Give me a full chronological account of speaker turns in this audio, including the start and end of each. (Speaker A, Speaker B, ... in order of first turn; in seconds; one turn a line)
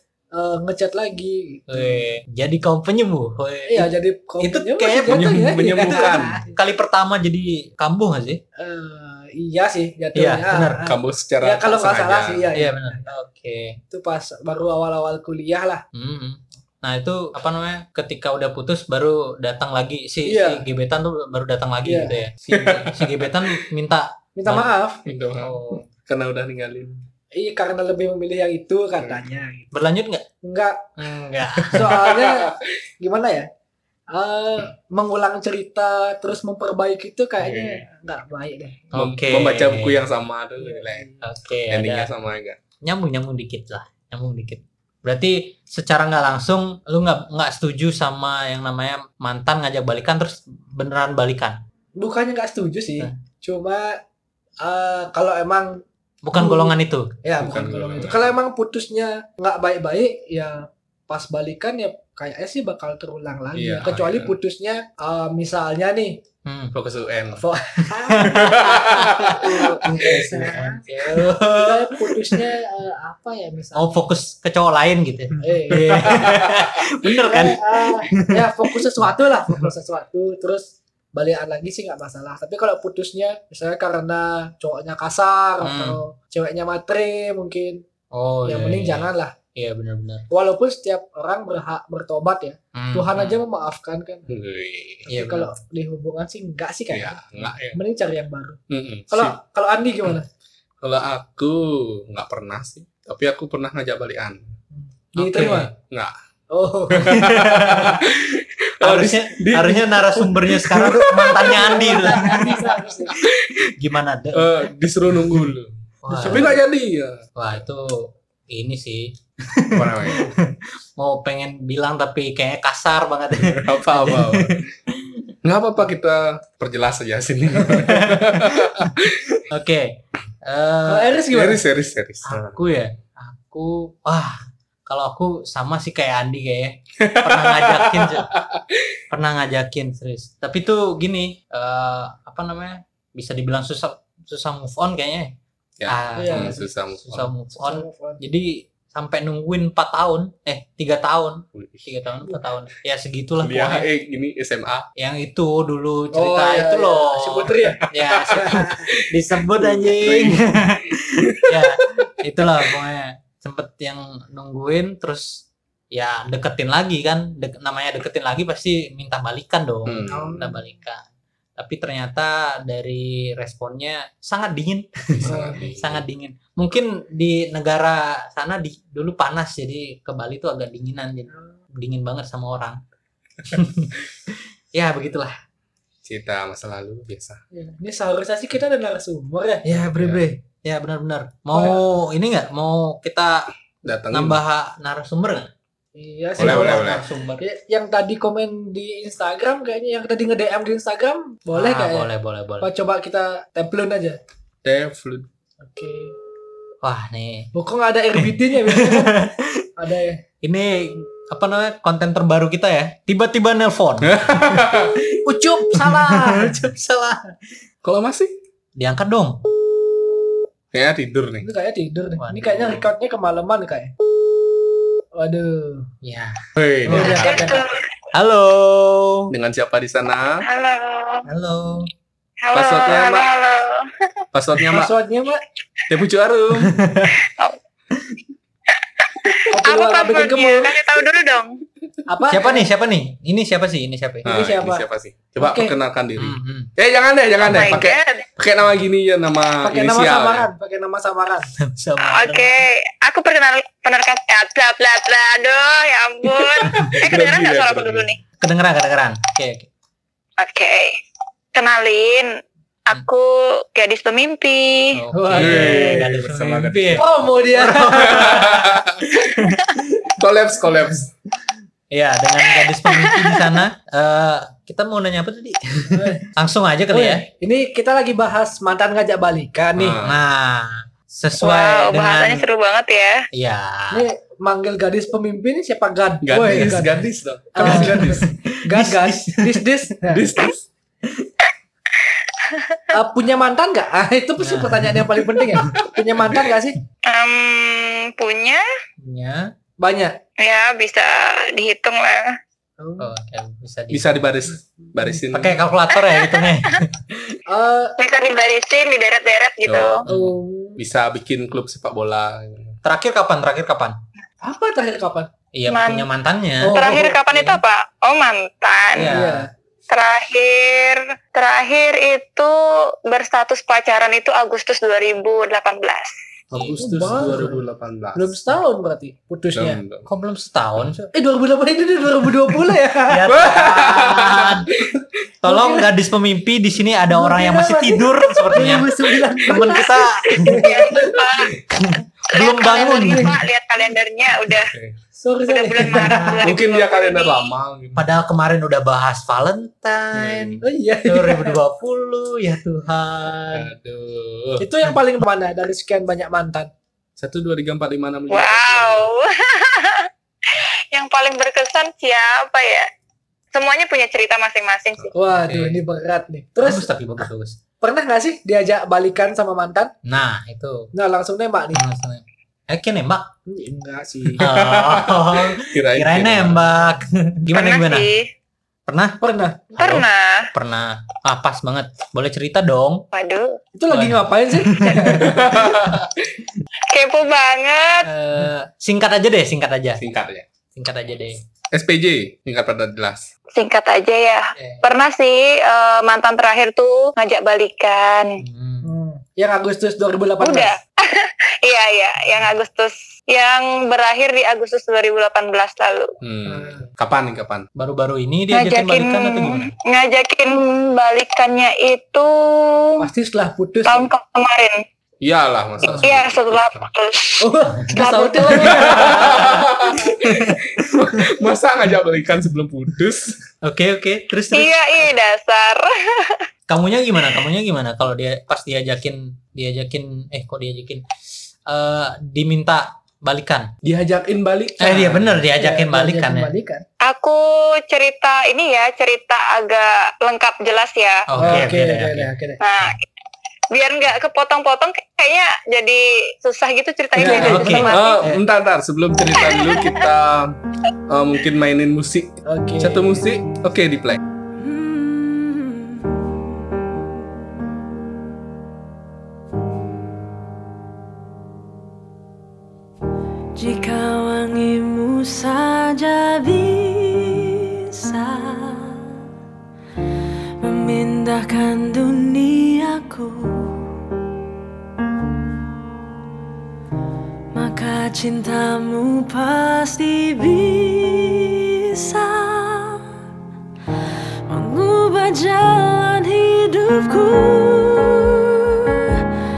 Speaker A: 0.3-2.0
Speaker B: 1.7-8.4
Speaker A: 3.7-6.5
Speaker C: 5.1-6.4
Speaker A: 8.6-13.1
Speaker B: 10.2-10.8
Speaker C: 10.8-12.5
Speaker B: 12.5-13.8
Speaker A: 13.9-15.8
Speaker B: 15.9-24.7
Speaker A: 20.2-20.6
Speaker A: 21.8-22.2
Speaker C: 22.5-23.6
Speaker A: 24.4-25.1
Speaker C: 25.1-27.0
Speaker B: 25.4-25.9
Speaker A: 27.3-29.7
Speaker B: 29.7-30.2
Speaker A: 30.4-30.9
Speaker B: 31.0-32.1
Speaker C: 31.6-32.6
Speaker A: 31.7-33.5
Speaker A: 34.1-38.8
Speaker C: 37.4-37.8
Speaker B: 38.9-40.0
Speaker C: 38.9-41.1
Speaker A: 40.6-41.2
Speaker B: 41.2-42.1
Speaker C: 41.7-42.6
Speaker B: 42.8-51.6
Speaker A: 52.0-54.0
Speaker A: 54.6-66.2
Speaker B: 56.2-57.1
Speaker C: 57.4-58.3
Speaker C: 63.5-64.3
Speaker B: 66.5-66.8
Speaker C: 66.7-67.4
Speaker A: 67.3-74.0
Speaker B: 68.1-72.4
Speaker C: 68.2-70.3
Speaker B: 73.8-79.7
Speaker A: 75.4-76.3
Speaker C: 75.9-76.8
Speaker A: 77.0-87.8
Speaker B: 85.6-86.0
Speaker B: 88.1-90.2
Speaker A: 88.4-89.3
Speaker A: 90.3-94.3
Speaker B: 92.8-93.4
Speaker C: 94.3-95.1
Speaker A: 95.1-98.6
Speaker B: 95.1-95.5
Speaker C: 96.9-97.8
Speaker C: 98.7-99.4
Speaker A: 99.1-100.3
Speaker C: 100.8-104.4
Speaker A: 104.7-105.7
Speaker B: 105.2-105.7
Speaker C: 105.8-106.1
Speaker A: 106.5-107.3
Speaker C: 106.9-113.5
Speaker B: 107.1-108.0
Speaker B: 108.8-112.7
Speaker A: 110.7-113.2
Speaker B: 113.8-114.5
Speaker C: 114.3-117.2
Speaker B: 116.0-116.6
Speaker A: 116.1-116.6
Speaker B: 117.4-125.2
Speaker C: 119.7-120.3
Speaker C: 123.4-124.7
Speaker C: 125.4-129.4
Speaker B: 127.7-128.9
Speaker B: 129.5-131.2
Speaker A: 130.9-131.6
Speaker C: 131.3-132.6
Speaker B: 132.2-138.3
Speaker C: 137.0-139.0
Speaker B: 139.1-145.3
Speaker C: 145.8-147.3
Speaker B: 145.9-153.9
Speaker A: 146.2-146.6
Speaker A: 147.6-148.2
Speaker C: 151.6-151.9
Speaker C: 153.4-154.9
Speaker B: 155.0-182.8
Speaker A: 156.1-157.8
Speaker C: 157.9-162.8
Speaker A: 158.3-158.8
Speaker C: 169.8-170.5
Speaker A: 170.1-170.6
Speaker C: 175.2-176.1
Speaker A: 175.3-175.6
Speaker B: 183.4-185.4
Speaker C: 186.1-187.4
Speaker A: 187.5-189.9
Speaker B: 189.6-193.5
Speaker C: 189.9-190.2
Speaker A: 191.5-191.8
Speaker C: 193.8-194.4
Speaker B: 194.1-195.5
Speaker A: 195.9-202.1
Speaker B: 196.4-197.4
Speaker C: 196.4-197.1
Speaker B: 201.6-202.7
Speaker A: 202.6-204.2
Speaker C: 204.6-205.3
Speaker A: 205.6-206.1
Speaker B: 206.8-207.5
Speaker A: 207.5-210.2
Speaker B: 208.1-209.7
Speaker B: 210.4-217.2
Speaker C: 214.0-215.0
Speaker A: 215.2-216.7
Speaker C: 217.8-218.3
Speaker B: 218.8-219.4
Speaker C: 220.7-221.5
Speaker A: 221.4-223.9
Speaker B: 222.2-222.8
Speaker A: 225.1-225.9
Speaker B: 226.0-227.6
Speaker C: 226.6-227.3
Speaker A: 226.9-227.6
Speaker D: 227.0-227.8
Speaker B: 228.1-229.3
Speaker C: 229.3-230.4
Speaker D: 230.4-231.2
Speaker B: 231.2-231.9
Speaker D: 232.4-234.1
Speaker C: 232.5-233.3
Speaker C: 234.3-234.9
Speaker A: 234.7-235.4
Speaker C: 235.9-236.8
Speaker B: 236.6-237.2
Speaker D: 237.2-237.6
Speaker D: 239.0-241.6
Speaker A: 239.5-240.8
Speaker A: 242.1-242.7
Speaker B: 242.3-244.3
Speaker A: 244.2-244.9
Speaker C: 244.2-250.5
Speaker A: 245.4-245.8
Speaker B: 246.2-246.7
Speaker B: 247.4-247.9
Speaker D: 247.4-248.2
Speaker A: 249.6-251.5
Speaker B: 251.6-252.6
Speaker D: 252.0-258.2
Speaker C: 256.3-258.1
Speaker B: 256.6-257.0
Speaker B: 258.4-259.7
Speaker D: 260.4-261.0
Speaker D: 261.5-262.3
Speaker D: 262.9-264.9
Speaker B: 264.9-270.1
Speaker A: 265.1-266.1
Speaker C: 265.3-267.1
Speaker A: 266.9-268.7
Speaker C: 268.0-269.3
Speaker C: 270.1-271.1
Speaker B: 271.9-277.2
Speaker D: 272.5-273.6
Speaker A: 275.9-276.3
Speaker A: 276.9-280.0
Speaker C: 279.8-280.2
Speaker B: 279.8-282.4
Speaker D: 281.4-283.2
Speaker B: 283.3-284.1
Speaker A: 283.9-287.0
Speaker C: 286.2-288.3
Speaker A: 287.5-290.2
Speaker B: 287.6-289.7
Speaker C: 290.1-290.6
Speaker D: 292.0-292.9
Speaker A: 292.9-296.8
Speaker B: 294.4-295.7
Speaker C: 295.6-296.3
Speaker D: 297.1-298.6
Speaker B: 299.0-299.5
Speaker A: 299.8-300.2
Speaker D: 300.4-302.4
Speaker A: 302.8-303.1
Speaker B: 303.0-304.2
Speaker C: 303.9-305.6
Speaker A: 304.8-305.2
Speaker B: 305.3-307.3
Speaker D: 305.9-306.8
Speaker A: 307.5-307.9
Speaker D: 308.0-310.0
Speaker C: 309.7-310.1
Speaker A: 310.1-310.8
Speaker B: 310.1-310.4
Speaker C: 310.8-312.8
Speaker B: 312.8-314.0
Speaker A: 314.4-315.3
Speaker B: 315.5-317.6
Speaker D: 315.7-316.1
Speaker A: 316.6-317.2
Speaker D: 316.7-319.2
Speaker B: 318.9-319.5
Speaker A: 319.1-319.5
Speaker D: 319.9-326.1
Speaker B: 326.5-327.5
Speaker C: 326.5-328.3
Speaker A: 326.8-327.6
Speaker A: 328.1-329.8
Speaker C: 329.5-330.1
Speaker B: 330.1-331.1
Speaker A: 331.1-333.4
Speaker B: 333.1-334.7
Speaker C: 333.3-335.1
Speaker B: 335.4-343.4
Speaker A: 335.4-335.9
Speaker A: 337.1-341.1
Speaker D: 340.5-341.5
Speaker D: 342.3-344.7
Speaker C: 344.7-344.9
Speaker A: 345.1-346.4
Speaker D: 345.5-347.5
Speaker B: 345.9-346.4
Speaker C: 346.4-348.1
Speaker B: 347.9-353.7
Speaker C: 350.1-350.6
Speaker A: 350.6-351.6
Speaker C: 353.5-354.7
Speaker A: 354.6-356.7
Speaker C: 357.2-359.1
Speaker D: 358.3-362.9
Speaker D: 363.5-365.1
Speaker A: 365.1-366.9
Speaker B: 365.4-365.8
Speaker B: 366.6-367.6
Speaker A: 367.8-369.9
Speaker B: 370.0-370.9
Speaker A: 370.9-371.8
Speaker B: 371.7-373.3
Speaker A: 373.5-374.5
Speaker C: 374.4-376.7
Speaker B: 374.4-378.1
Speaker D: 377.5-378.3
Speaker B: 378.9-379.2
Speaker A: 379.2-379.8
Speaker B: 379.8-383.0
Speaker D: 379.8-380.5
Speaker D: 383.1-383.6
Speaker A: 383.8-385.6
Speaker B: 383.9-385.6
Speaker C: 385.1-386.2
Speaker D: 386.9-388.1
Speaker B: 388.0-390.0
Speaker C: 390.0-390.5
Speaker B: 390.8-391.4
Speaker C: 391.7-393.3
Speaker D: 393.5-398.4
Speaker B: 394.6-394.8
Speaker B: 398.4-398.9
Speaker A: 398.8-400.7
Speaker D: 400.4-406.1
Speaker C: 406.2-407.7
Speaker A: 406.5-406.9
Speaker B: 407.8-409.7
Speaker D: 408.5-412.9
Speaker A: 413.0-414.1
Speaker D: 413.9-414.8
Speaker C: 415.2-416.4
Speaker D: 416.0-419.1
Speaker A: 417.4-419.7
Speaker C: 418.7-423.4
Speaker B: 418.9-419.5
Speaker B: 420.2-420.8
Speaker B: 423.6-425.1
Speaker D: 424.5-426.4
Speaker B: 426.7-431.0
Speaker B: 431.7-433.7
Speaker A: 433.8-436.8
Speaker B: 434.8-436.5
Speaker D: 437.0-441.3
Speaker B: 441.3-442.3
Speaker A: 441.4-442.6
Speaker D: 442.6-443.0
Speaker D: 443.7-448.3
Speaker A: 447.1-447.9
Speaker B: 447.2-448.4
Speaker C: 447.8-450.6
Speaker D: 449.4-450.0
Speaker C: 451.1-454.2
Speaker A: 452.5-453.3
Speaker E: 454.6-456.5
Speaker E: 463.5-469.1
Speaker E: 470.6-473.9
Speaker E: 477.5-483.0
Speaker E: 484.5-489.2